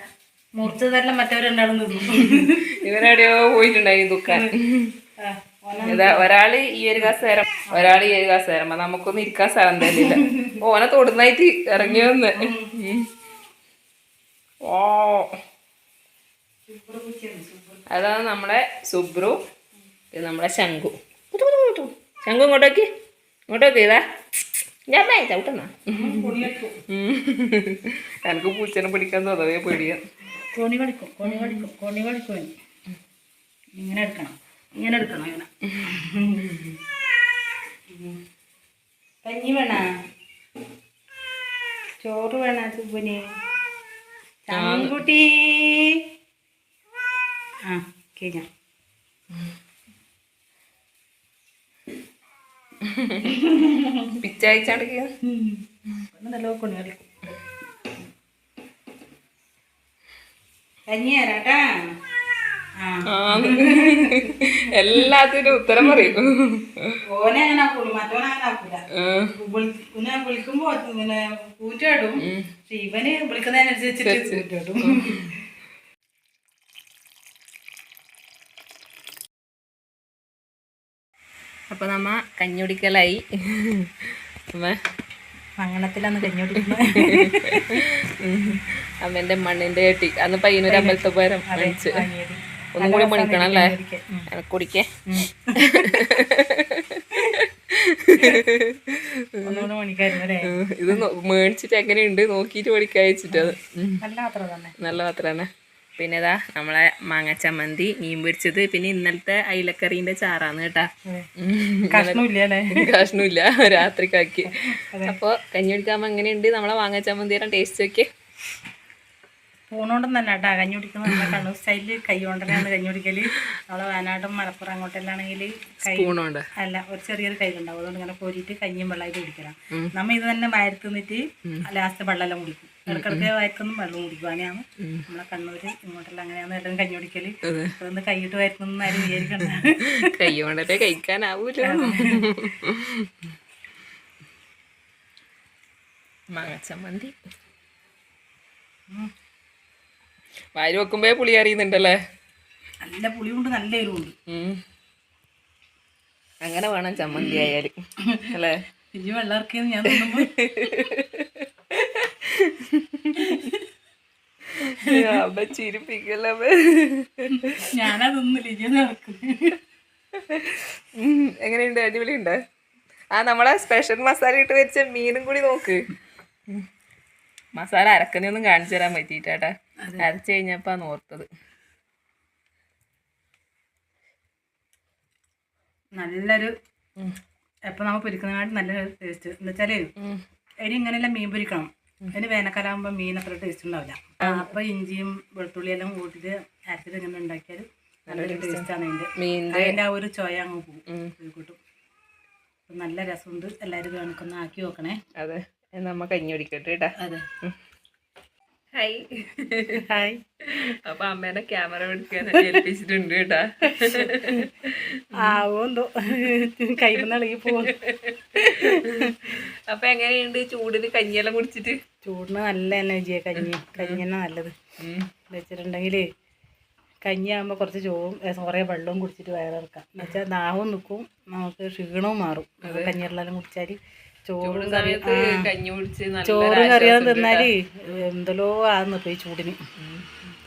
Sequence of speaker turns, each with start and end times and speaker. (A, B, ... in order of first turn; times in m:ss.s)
0:00.6-0:02.7 A
0:02.1-0:04.9 B
0:05.2-0:06.3 A
0:05.8-0:13.1 B
0:07.7-0:08.1 A
0:09.9-0:10.5 A
0:11.8-0:12.7 A
0:14.6-0:15.3 B
0:16.7-0:17.8 A
0:17.9-0:19.4 B
0:20.1-0:22.9 B
0:23.5-0:24.0 B
0:24.9-0:26.3 B
0:25.9-0:26.8 A
0:26.9-0:30.0 B
0:30.6-0:32.5 A
0:31.2-0:31.6 B
0:33.8-0:36.7 A
0:37.9-0:38.2 A
0:39.2-0:39.8 A
0:42.0-0:43.2 A
0:44.4-0:45.9 A
0:44.5-0:45.0 B
0:47.7-0:48.4 A
0:52.9-0:53.2 B
0:53.2-0:54.1 A
0:54.2-0:55.1 B
0:55.3-0:57.4 A
1:00.9-1:01.6 A
1:02.8-1:05.1 A
1:03.1-1:07.0 B
1:05.8-1:06.1 A
1:07.1-1:15.2 A
1:09.0-1:09.3 B
1:14.0-1:15.3 B
1:21.7-1:23.9 B
1:25.6-1:27.8 A
1:26.6-1:32.0 B
1:30.7-1:34.3 A
1:32.8-1:33.8 B
1:34.3-1:34.9 B
1:35.1-1:36.0 A
1:35.6-1:39.6 B
1:38.2-1:38.4 A
1:39.4-1:41.0 A
1:40.4-1:44.0 B
1:43.3-1:44.8 A
1:44.8-1:50.9 B
1:51.4-1:52.2 B
1:51.9-1:52.9 A
1:52.8-1:54.5 B
1:54.5-1:55.2 A
1:55.1-1:58.1 B
1:59.7-2:20.1 A
2:05.9-2:06.5 B
2:12.9-2:13.3 B
2:17.4-2:17.8 B
2:19.0-2:23.1 B
2:21.6-2:22.2 A
2:26.3-2:27.1 B
2:30.6-2:32.0 B
2:32.8-2:34.1 A
2:34.3-2:34.6 B
2:36.4-2:37.7 B
2:38.9-2:40.3 A
2:39.9-2:43.5 B
2:43.2-2:43.6 A
2:44.7-2:47.8 B
2:47.6-2:49.6 A
2:50.2-2:52.4 B
2:53.1-2:55.8 B
2:57.6-3:01.3 B
3:06.0-3:06.5 A
3:07.7-3:09.9 A
3:10.6-3:21.6 A
3:14.2-3:14.5 B
3:18.1-3:18.7 B
3:19.2-3:19.8 B
3:20.9-3:21.1 B
3:22.7-3:25.0 A
3:25.2-3:26.9 B
3:27.0-3:27.2 A
3:28.8-3:29.9 B
3:29.9-3:30.2 A
3:30.5-3:35.4 B
3:32.2-3:32.6 A
3:33.9-3:34.5 A
3:35.2-3:37.8 A
3:37.8-3:41.8 B
3:38.4-3:39.4 A
3:42.0-3:44.6 A
3:43.4-3:44.0 B
3:44.8-3:45.1 B
3:45.3-3:46.0 A
3:47.0-3:55.5 A
3:52.6-3:52.9 B
3:54.4-3:57.5 B
3:56.2-3:59.6 A
3:59.8-4:00.2 B